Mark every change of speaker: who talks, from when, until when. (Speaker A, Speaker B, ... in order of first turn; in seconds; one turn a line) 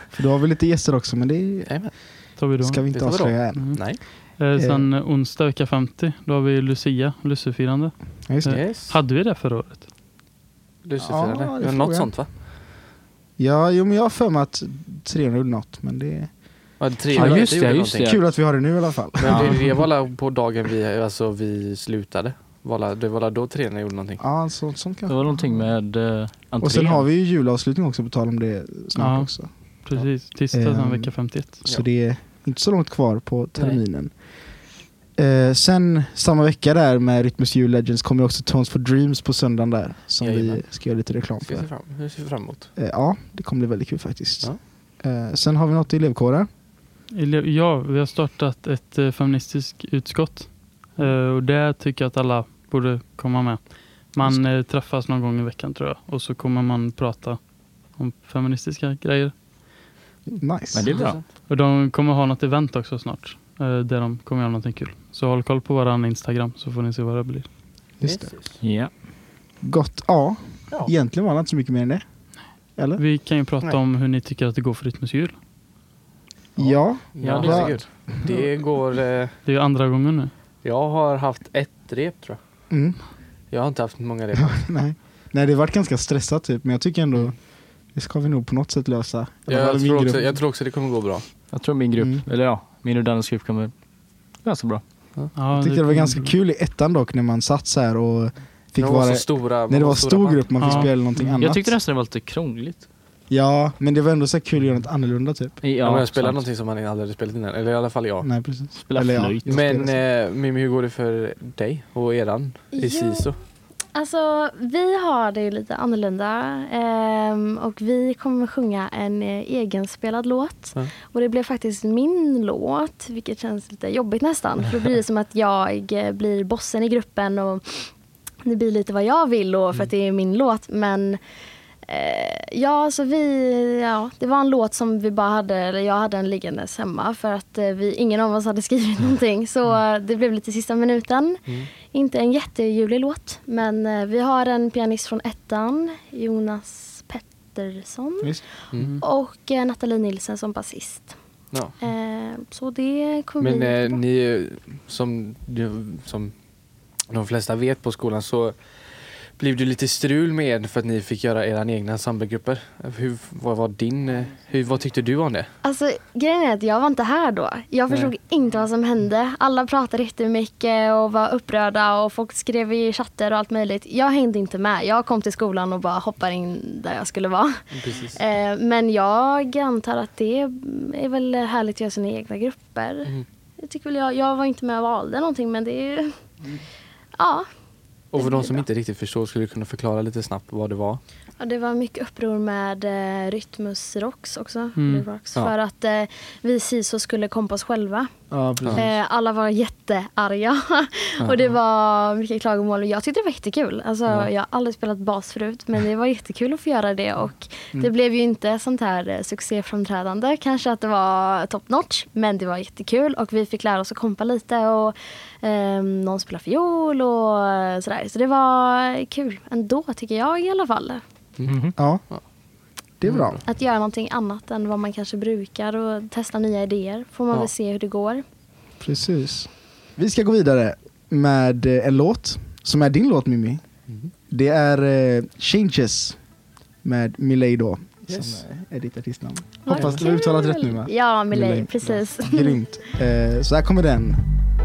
Speaker A: 0.1-4.9
Speaker B: 1.7-2.0
Speaker C: 2.4-9.9
Speaker B: 2.9-4.0
Speaker A: 8.2-8.7
Speaker B: 8.4-9.0
Speaker B: 10.8-12.3
Speaker A: 11.0-12.2
Speaker A: 13.4-19.7
Speaker B: 16.8-18.2
Speaker D: 17.1-18.2
Speaker B: 19.2-24.2
Speaker C: 19.2-19.6
Speaker A: 24.2-26.1
Speaker D: 25.1-27.0
Speaker A: 26.6-29.8
Speaker C: 29.0-31.6
Speaker A: 30.5-41.7
Speaker B: 40.2-42.7
Speaker A: 42.8-46.5
Speaker C: 47.1-59.9
Speaker A: 60.4-61.1
Speaker D: 60.7-61.2
Speaker B: 60.9-61.2
Speaker C: 61.0-67.9
Speaker A: 68.0-68.3
Speaker B: 68.0-68.6
Speaker D: 68.6-68.9
Speaker A: 69.6-73.0
Speaker C: 73.0-75.4
Speaker A: 76.6-78.4
Speaker B: 76.6-79.4
Speaker D: 77.2-77.9
Speaker C: 79.4-80.3
Speaker B: 80.6-82.6
Speaker A: 82.7-83.1
Speaker B: 83.5-84.8
Speaker A: 84.3-90.2
Speaker B: 89.5-91.3
Speaker D: 91.5-94.8
Speaker A: 92.0-92.2
Speaker C: 95.3-96.3
Speaker A: 95.5-101.8
Speaker B: 98.8-100.9
Speaker C: 100.6-100.9
Speaker D: 101.0-102.9
Speaker A: 103.3-105.6
Speaker D: 105.6-106.4
Speaker B: 105.8-108.3
Speaker A: 108.2-110.0
Speaker D: 108.8-109.6
Speaker B: 109.5-113.3
Speaker E: 112.7-113.3
Speaker E: 113.9-131.2
Speaker E: 131.9-151.2
Speaker C: 148.8-149.0
Speaker E: 151.8-154.0
Speaker B: 153.4-156.5
Speaker B: 157.1-165.5
Speaker E: 165.6-186.4
Speaker B: 177.7-178.2
Speaker E: 187.2-187.5
Speaker B: 188.1-191.0
Speaker E: 188.1-188.6
Speaker E: 191.4-198.1
Speaker C: 194.8-195.1
Speaker A: 198.3-198.9
Speaker E: 198.7-221.0
Speaker B: 201.2-201.5
Speaker B: 221.4-222.2
Speaker D: 221.4-221.8
Speaker A: 221.8-222.3
Speaker A: 223.0-223.4
Speaker B: 223.0-223.4
Speaker E: 223.4-228.2
Speaker A: 228.8-233.6
Speaker A: 234.3-236.2
Speaker A: 236.8-244.2
Speaker B: 238.1-238.6
Speaker E: 239.7-242.6
Speaker B: 239.7-240.0